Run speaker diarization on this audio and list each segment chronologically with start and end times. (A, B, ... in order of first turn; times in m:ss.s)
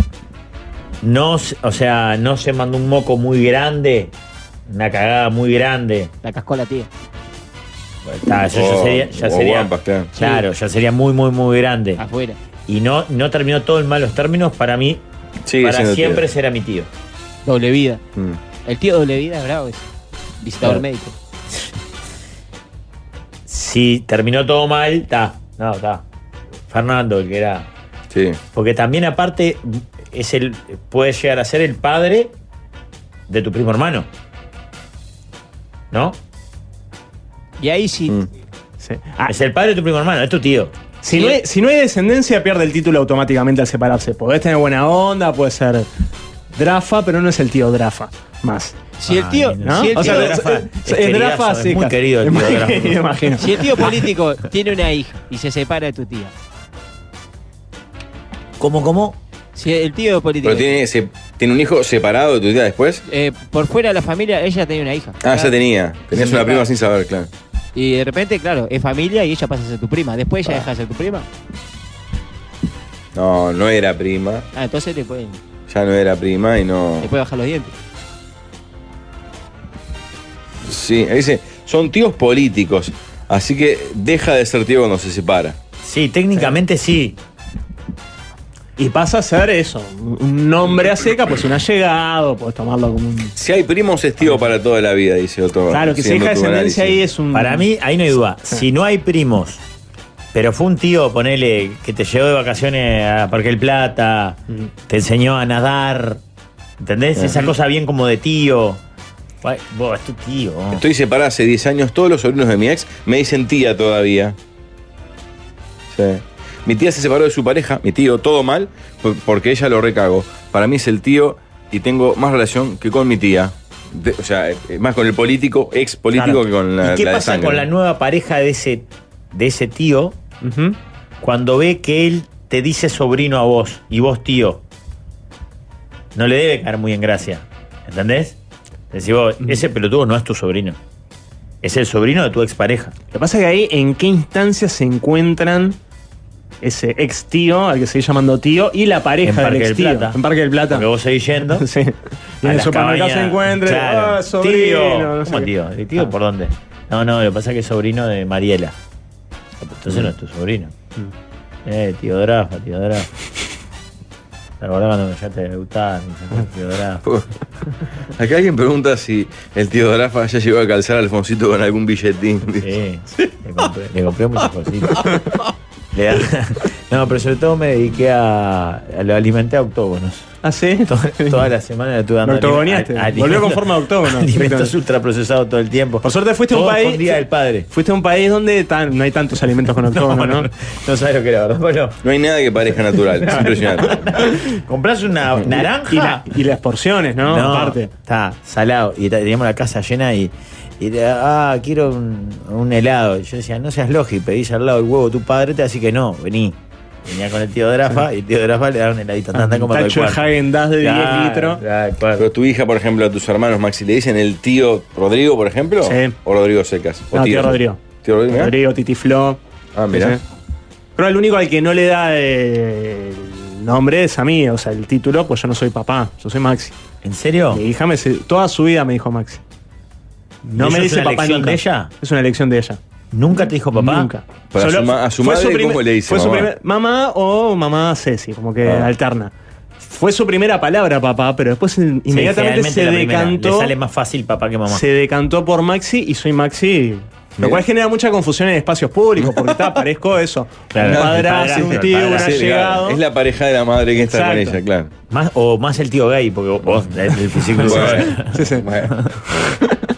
0:01.0-0:04.1 A
0:04.7-0:06.1 A
0:06.2-0:06.9 B
0:08.0-0:12.0 A
0:08.5-0:10.1 C
0:10.2-0:10.4 B
0:12.0-0:12.4 B
0:12.7-0:15.0 A
0:15.4-0:16.3 C
0:15.6-0:16.9 A
0:17.5-0:18.0 B
0:18.7-0:19.8 B
0:20.4-0:21.1 B
0:23.5-0:26.0 A
0:26.7-0:27.7 A
0:28.1-0:28.4 C
0:28.5-0:32.3 A
0:33.3-0:34.1 A
0:35.9-0:36.2 A
0:37.6-0:38.2 B
0:38.8-0:39.3 D
0:39.2-0:40.7 A
0:41.0-0:45.9 D
0:41.1-0:41.4 B
0:46.6-0:48.8 D
0:49.0-0:50.4 B
0:49.0-0:53.0 A
0:49.6-0:53.9 D
0:53.4-0:56.3 B
0:58.6-0:59.2 A
0:59.6-1:00.8 B
1:00.4-1:03.0 C
1:03.1-1:05.6 B
1:05.2-1:07.3 C
1:06.1-1:06.7 B
1:07.8-1:11.3 B
1:13.2-1:14.4 C
1:14.5-1:15.4 B
1:15.7-1:17.1 C
1:17.0-1:17.7 B
1:20.6-1:25.6 C
1:25.8-1:27.2 A
1:28.8-1:33.3 D
1:33.4-1:37.0 C
1:35.7-1:37.7 D
1:37.3-1:39.6 A
1:40.3-1:46.2 A
1:46.8-1:48.8 A
1:47.2-1:47.4 C
1:49.4-1:50.8 A
1:50.7-1:54.4 C
1:55.9-2:07.7 C
2:06.1-2:10.2 A
2:10.4-2:10.8 D
2:11.2-2:14.6 A
2:16.2-2:18.4 A
2:18.9-2:20.8 A
2:21.6-2:23.0 A
2:23.1-2:25.8 D
2:26.6-2:30.9 D
2:29.2-2:31.6 A
2:31.5-2:36.1 D
2:32.4-2:38.8 A
2:39.6-2:40.7 A
2:41.7-2:43.1 A
2:44.6-2:47.0 A
2:48.2-2:53.3 C
2:52.6-2:55.2 A
2:55.9-3:00.3 A
3:00.4-3:01.5 D
3:00.8-3:07.7 A
3:02.2-3:04.7 D
3:06.0-3:10.5 D
3:09.9-3:12.0 A
3:12.0-3:14.0 C
3:13.7-3:16.3 A
3:15.5-3:17.9 D
3:17.2-3:30.3 A
3:29.3-3:31.6 D
3:30.8-3:32.3 A
3:32.2-3:38.5 C
3:35.8-3:36.2 D
3:37.1-3:39.4 D
3:39.8-3:40.2 C
3:39.9-3:40.2 D
3:41.0-3:46.8 D
3:47.0-3:47.6 A
3:47.5-3:49.4 D
3:50.4-3:52.8 D
3:50.6-3:51.9 A
3:53.1-3:54.1 A
3:53.8-4:03.7 D
3:54.5-3:56.5 C
3:58.6-3:58.9 C
4:02.1-4:04.8 A
4:04.7-4:13.0 D
4:07.4-4:07.6 C
4:09.2-4:09.5 C
4:10.7-4:12.5 A
4:10.8-4:14.9 C
4:14.1-4:14.6 D
4:15.1-4:19.0 A
4:17.6-4:19.0 C
4:17.7-4:18.7 D